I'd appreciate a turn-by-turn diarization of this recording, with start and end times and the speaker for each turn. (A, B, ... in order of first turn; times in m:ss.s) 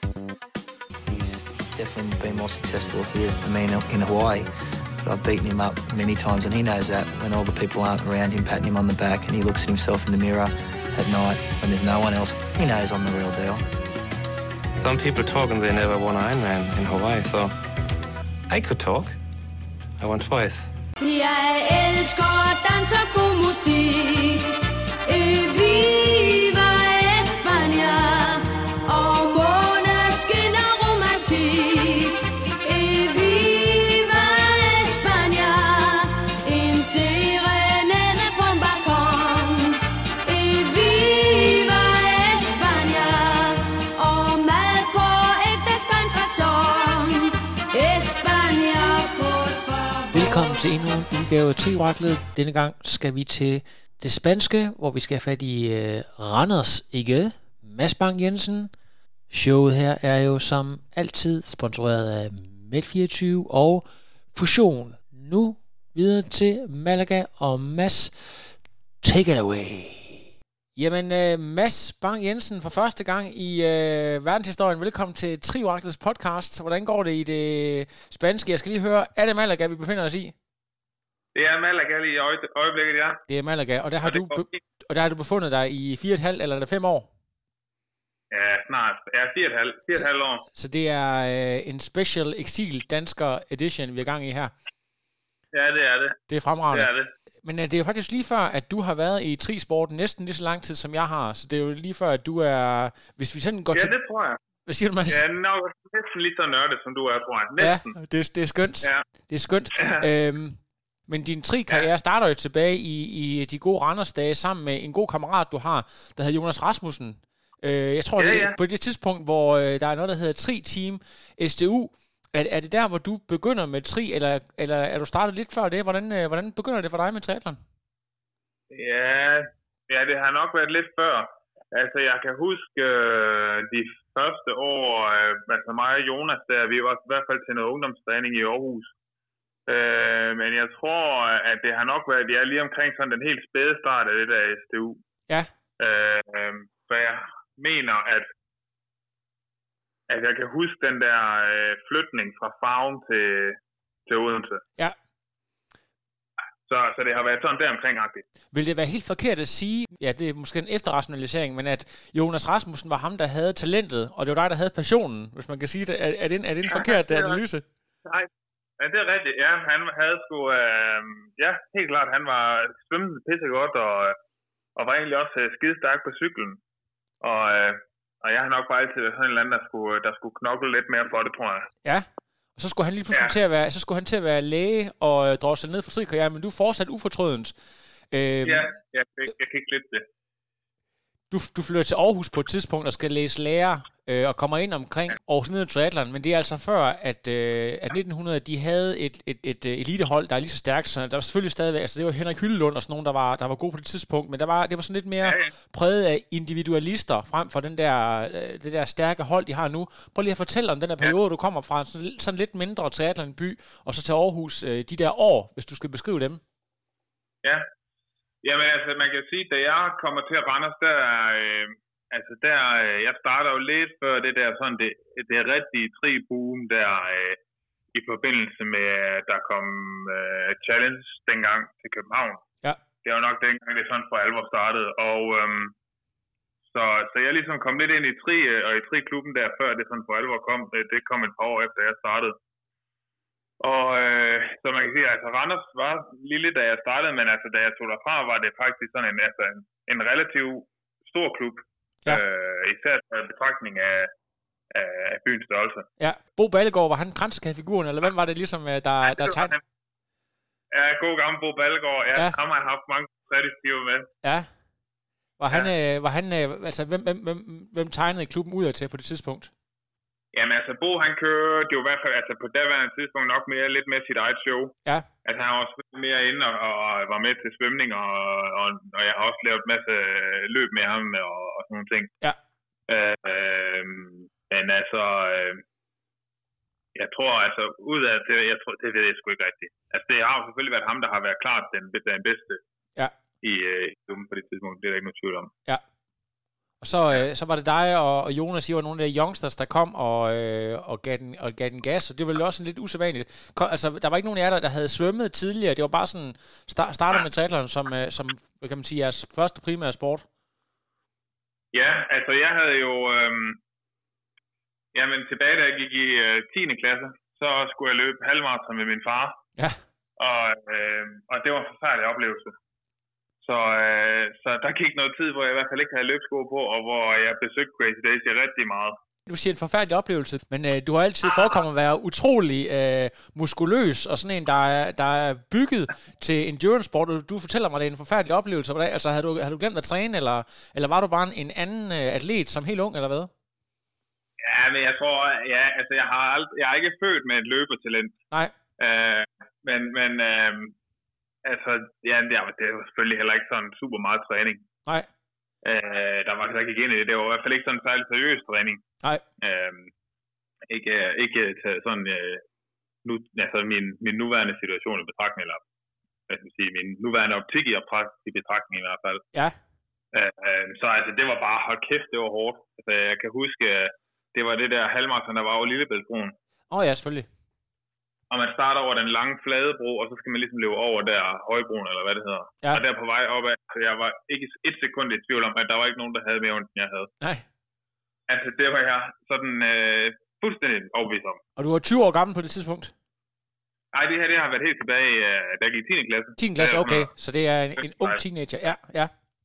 0:01.1-0:04.5 A
0:05.0-0:13.6 A
0:14.8-0:17.5 B
0:18.5-0:19.2 B
0:20.0-0:20.7 B
0:21.0-0:24.6 C
0:25.1-0:50.6 C
0:50.1-0:58.7 D
0:59.3-1:20.3 D
1:21.4-1:23.2 E
1:23.3-1:27.1 D
1:24.0-1:24.6 E
1:28.3-1:30.5 E
1:29.9-1:34.5 D
1:35.5-1:36.2 E
1:36.3-1:36.9 D
1:36.7-1:37.1 E
1:37.4-1:43.9 D
1:43.7-1:44.4 E
1:44.6-1:45.3 D
1:45.1-1:48.0 E
1:47.6-2:07.6 D
1:49.8-1:50.1 E
1:58.2-1:58.6 E
2:08.7-2:18.9 E
2:19.7-2:25.0 E
2:25.8-2:28.3 E
2:30.1-2:34.6 E
2:36.7-2:38.2 E
2:38.5-2:47.7 D
2:46.7-2:47.4 E
2:48.8-2:54.2 E
2:54.8-2:56.6 E
2:57.2-3:01.7 E
3:01.8-3:07.6 D
3:03.1-3:03.4 E
3:08.1-3:08.7 D
3:08.4-3:10.1 E
3:11.3-3:36.4 D
3:25.2-3:25.5 E
3:38.4-3:47.4 E
3:47.9-3:52.4 E
3:53.0-3:55.7 E
3:56.7-4:02.4 E
4:03.6-4:14.1 E
4:14.7-4:15.9 E
4:16.0-4:19.5 D
4:19.1-4:19.6 E
4:20.7-4:24.1 E
4:24.2-4:24.5 D
4:25.4-4:29.5 D
4:30.3-4:42.1 E
4:42.9-4:45.6 E
4:47.0-4:52.6 E
4:53.4-4:55.5 E
4:56.8-5:10.3 D
5:11.7-5:13.6 E
5:14.9-5:19.4 E
5:20.2-5:22.6 E
5:23.4-5:29.0 E
5:29.3-5:43.3 D
5:31.3-5:31.6 E
5:44.4-5:48.2 E
5:48.8-5:50.8 E
5:51.4-5:54.6 E
5:55.6-5:58.8 E
5:59.4-5:59.9 E
6:00.7-6:02.4 E
6:03.0-6:05.6 E
6:06.3-6:09.2 E
6:10.1-6:16.4 E
6:16.7-6:17.3 D
6:18.3-6:27.1 E
6:27.2-6:27.4 D
6:28.3-6:31.4 E
6:31.6-6:32.9 D
6:33.9-6:37.1 E
6:36.4-6:39.1 D
6:37.8-6:38.2 E